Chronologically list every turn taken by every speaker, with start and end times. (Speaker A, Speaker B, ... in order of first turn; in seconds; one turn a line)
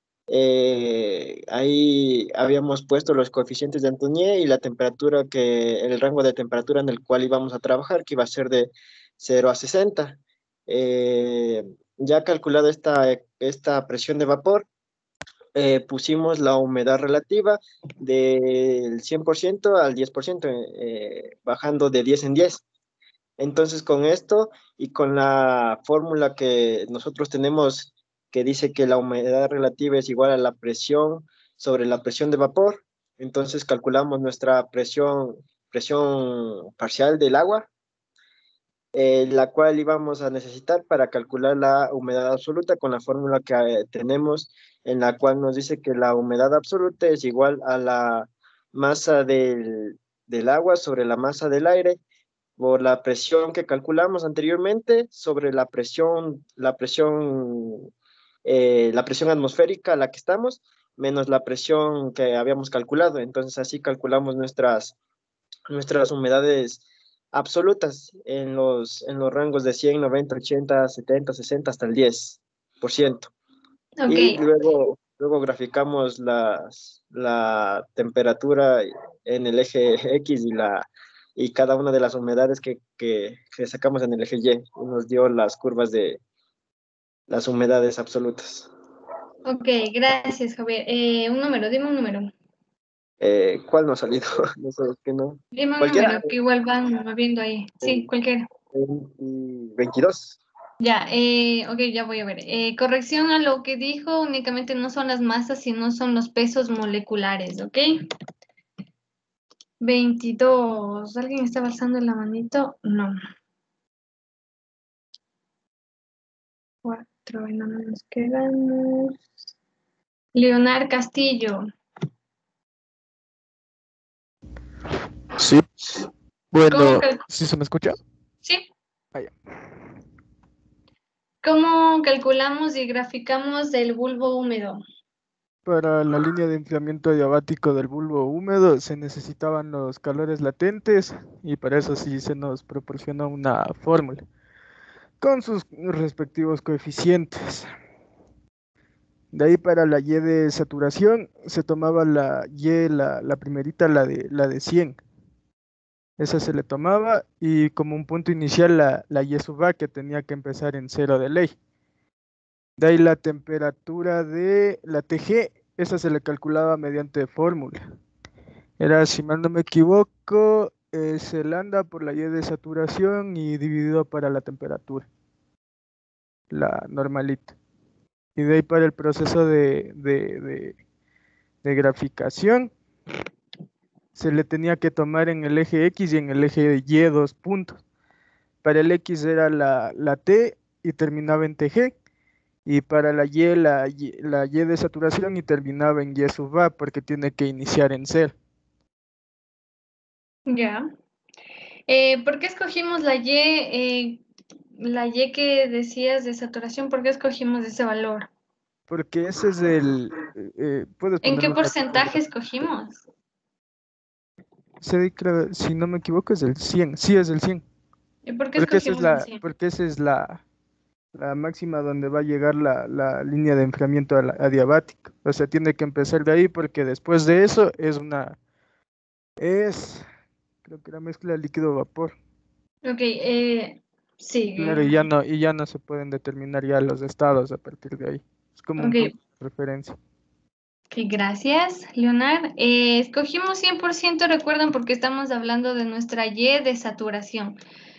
Speaker A: 0.3-14.7
Speaker A: 15.6-22.6
Speaker A: 23.4-37.7
Speaker A: 39.0-52.0
Speaker A: 52.6-57.9
Speaker A: 58.5-65.0
Speaker A: 65.7-73.3
Speaker B: 74.0-74.4
Speaker A: 74.1-86.2
Speaker A: 87.3-88.7
Speaker B: 89.5-92.3
Speaker A: 93.2-96.3
Speaker B: 95.5-98.5
Speaker A: 97.8-98.1
Speaker A: 98.7-100.4
Speaker B: 100.8-108.1
Speaker B: 109.8-113.2
Speaker B: 116.8-119.3
Speaker B: 120.3-121.7
Speaker C: 125.4-125.7
Speaker C: 126.5-128.0
Speaker B: 126.7-127.2
Speaker B: 131.4-134.8
Speaker C: 135.7-144.2
Speaker C: 145.2-147.7
Speaker C: 149.3-155.0
Speaker C: 156.2-161.6
Speaker C: 162.8-167.8
Speaker C: 168.8-175.1
Speaker C: 176.5-177.5
Speaker C: 178.4-180.8
Speaker C: 181.6-182.7
Speaker C: 184.2-187.8
Speaker C: 188.6-191.9
Speaker C: 192.7-198.3
Speaker B: 200.5-200.9
Speaker B: 201.9-204.2
Speaker B: 204.8-208.3
Speaker C: 208.9-212.2
Speaker B: 211.2-213.0
Speaker C: 214.8-217.6
Speaker B: 218.3-219.4
Speaker C: 218.6-220.4
Speaker C: 221.2-228.4
Speaker C: 229.4-230.1
Speaker C: 230.7-232.2
Speaker B: 232.8-235.1
Speaker C: 234.6-240.0
Speaker B: 238.8-239.1
Speaker B: 240.9-247.6